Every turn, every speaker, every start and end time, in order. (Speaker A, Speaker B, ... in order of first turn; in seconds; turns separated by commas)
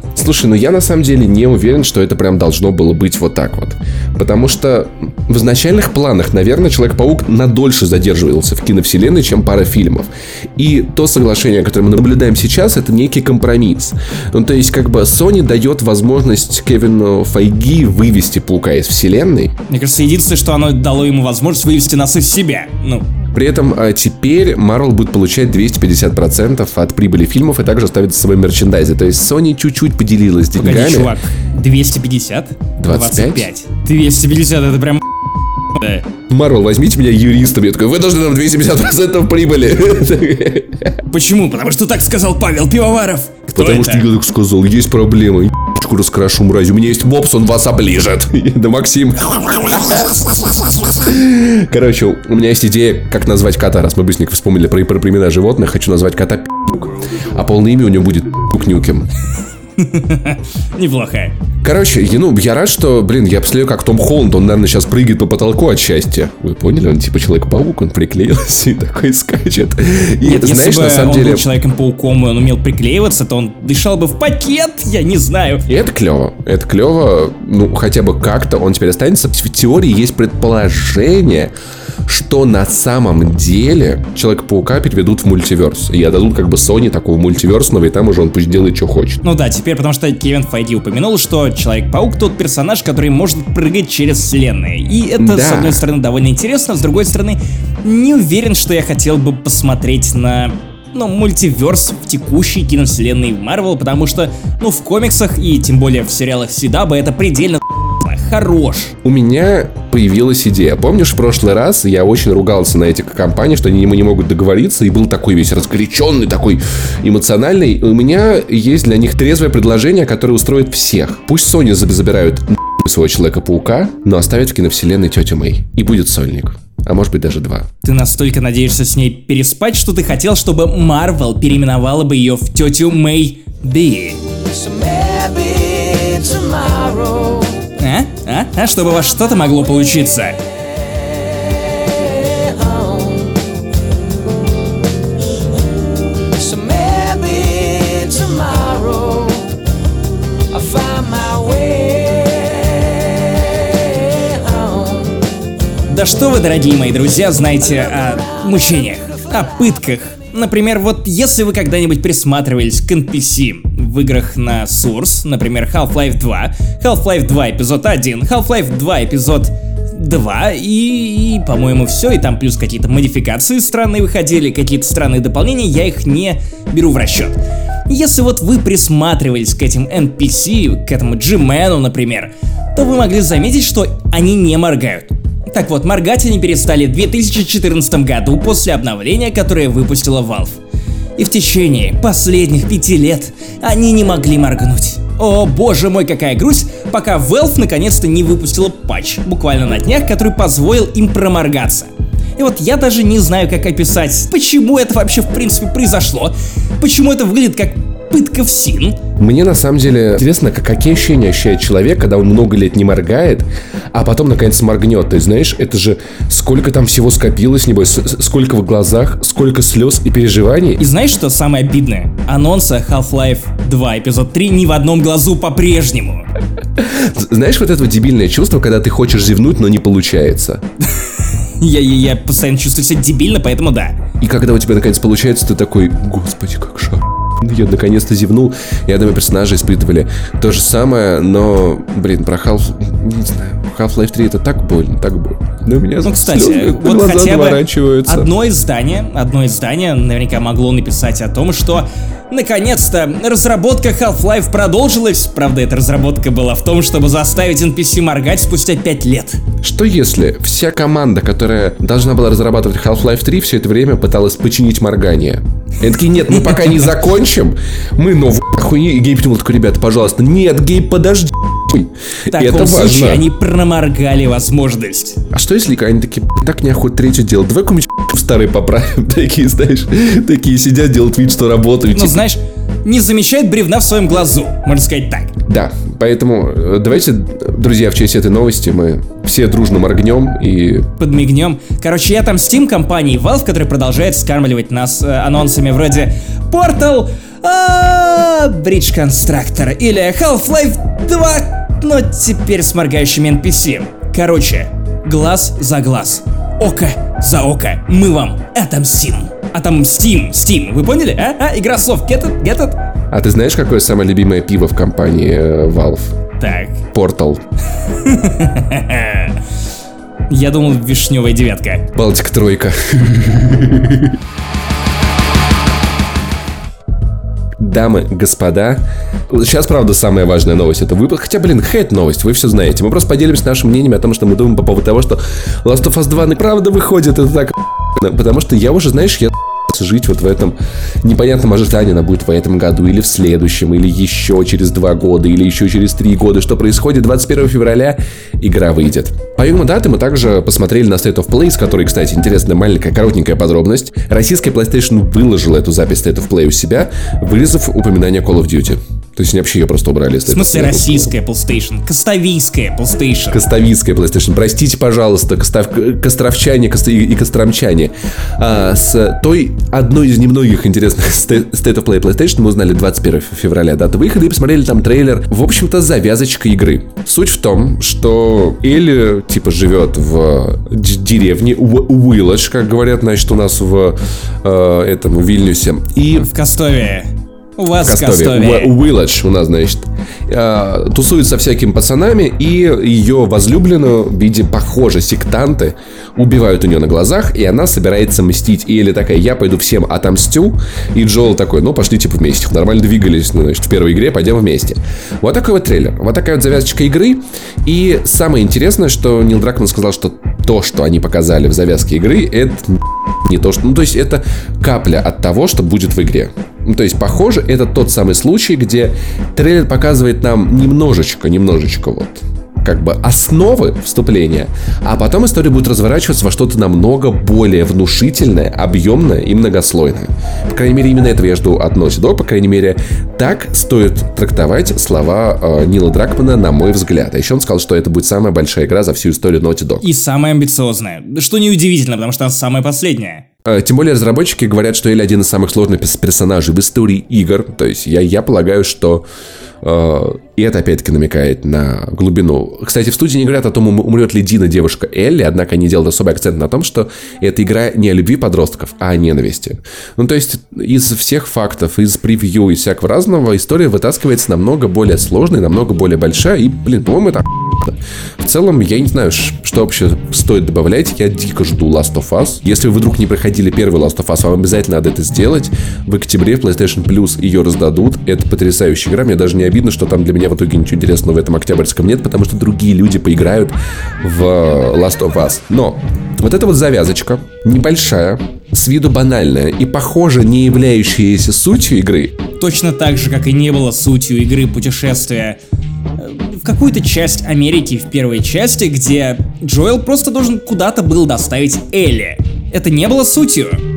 Speaker A: 0.1-19.5, Speaker B: 19.7-23.0, Speaker A: 23.3-31.1, Speaker B: 30.6-35.0, Speaker A: 32.8-33.5, Speaker B: 35.7-36.1, Speaker A: 36.3-41.0, Speaker B: 41.1-44.1, Speaker A: 43.5-59.1, Speaker B: 59.8-61.4, Speaker A: 61.6-71.4, Speaker B: 70.2-75.7, Speaker A: 75.7-81.5, Speaker A: 82.1-89.2, Speaker B: 89.2-109.0, Speaker A: 95.2-95.8, Speaker A: 109.0-127.7, Speaker B: 127.8-134.2, Speaker C: 134.5-137.7, Speaker B: 137.8-140.4, Speaker C: 140.7-143.5, Speaker C: 146.2-149.6, Speaker C: 150.5-155.3, Speaker B: 155.9-190.6, Speaker C: 157.6-159.4, Speaker B: 191.2-209.0, Speaker A: 209.2-220.8, Speaker B: 220.8-226.3, Speaker A: 226.8-230.6, Speaker B: 230.9-234.0, Speaker A: 234.2-248.3, Speaker B: 246.0-259.4, Speaker A: 259.6-273.3, Speaker B: 266.3-266.9, Speaker B: 272.3-275.2, Speaker A: 275.3-282.2, Speaker B: 281.9-285.3, Speaker A: 285.4-290.9, Speaker B: 291.0-312.8, Speaker A: 313.1-316.1, Speaker B: 316.4-316.8, Speaker A: 316.9-317.4, Speaker B: 317.9-319.4, Speaker B: 320.3-321.9, Speaker A: 321.9-324.2, Speaker A: 327.6-361.1, Speaker B: 360.2-363.4, Speaker A: 363.3-386.3, Speaker B: 386.1-388.7, Speaker A: 387.8-439.8, Speaker B: 439.8-443.2, Speaker A: 443.4-449.0, Speaker A: 449.6-492.1, Speaker B: 492.4-495.4, Speaker B: 496.0-503.6